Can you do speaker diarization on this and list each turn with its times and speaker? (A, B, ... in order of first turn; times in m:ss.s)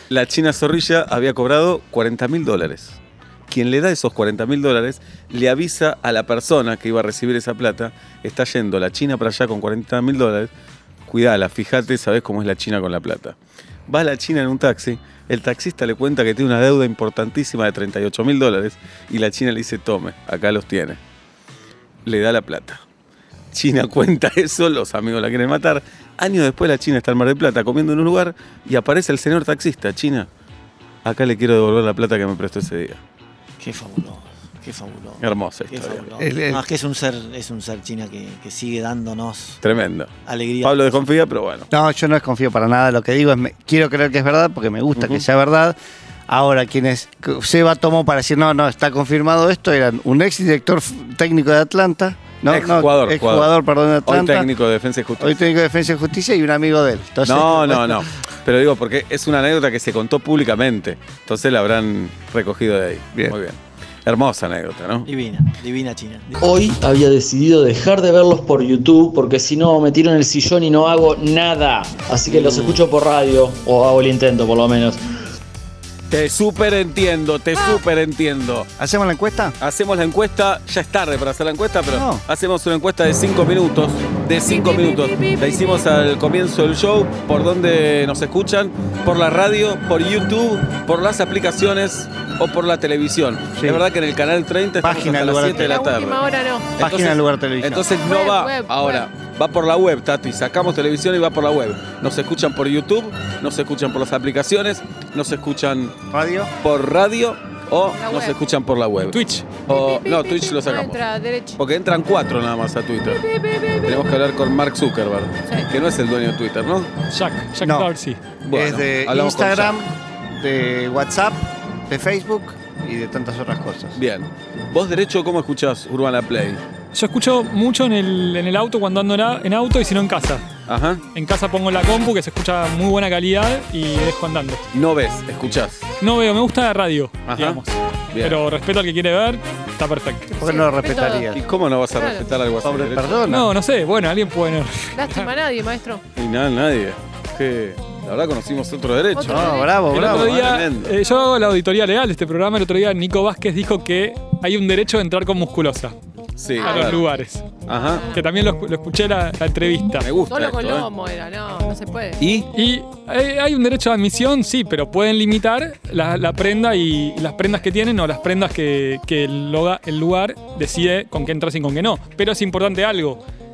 0:00.1-0:03.0 A
0:03.5-0:10.5 A
0:11.1-0:13.4 A
0:13.9-0:21.0 A
0:22.1-0:22.8 A
0:23.5-0:30.3 A
0:31.0-0:33.0 A
0:33.6-0:39.6 B
0:35.2-0:36.1 A
0:36.2-0:36.6 C
0:39.6-0:40.1 A
0:40.2-0:41.0 B
0:40.6-0:41.7 A
0:41.7-0:45.8 C
0:45.0-0:45.2 A
0:46.3-0:54.5 C
0:52.5-0:55.4 A
0:55.2-0:58.1 C
0:57.2-1:05.1 A
1:05.0-1:06.7 B
1:06.4-1:15.0 D
1:12.3-1:12.9 A
1:16.1-1:18.7 A
1:17.6-1:17.8 E
1:18.8-1:19.6 C
1:19.6-1:36.2 A
1:21.9-1:22.2 C
1:24.4-1:25.8 E
1:33.6-1:33.8 C
1:34.8-1:35.7 C
1:35.4-1:36.8 E
1:36.8-1:45.9 A
1:36.8-1:37.9 C
1:38.0-1:39.1 E
1:46.1-1:46.5 C
1:46.6-1:51.0 A
1:48.0-1:48.4 E
1:49.1-1:49.5 F
1:49.7-1:51.6 E
1:51.6-1:53.2 A
1:53.0-1:54.1 E
1:53.8-1:56.9 A
1:57.1-1:58.2 F
1:57.6-1:57.9 C
1:58.4-1:59.8 A
1:58.5-2:04.0 C
2:04.0-2:06.6 A
2:06.9-2:10.4 F
2:10.7-2:11.0 A
2:11.1-2:14.6 F
2:14.7-2:15.8 A
2:16.0-2:20.4 F
2:17.3-2:17.6 A
2:18.1-2:18.4 A
2:20.4-2:21.3 E
2:20.4-2:21.4 C
2:21.3-2:23.2 A
2:21.9-2:22.3 E
2:22.6-2:23.5 C
2:23.3-2:25.3 F
2:25.0-2:26.0 E
2:26.2-2:30.9 A
2:29.2-2:30.1 E
2:29.3-2:30.4 C
2:29.9-2:36.0 F
2:36.4-2:37.0 A
2:36.6-2:37.2 E
2:36.6-2:37.4 F
2:37.7-2:38.1 A
2:37.7-2:38.2 E
2:38.1-2:40.1 F
2:40.0-2:40.9 A
2:40.3-2:42.2 E
2:42.2-2:42.5 A
2:42.5-2:53.2 F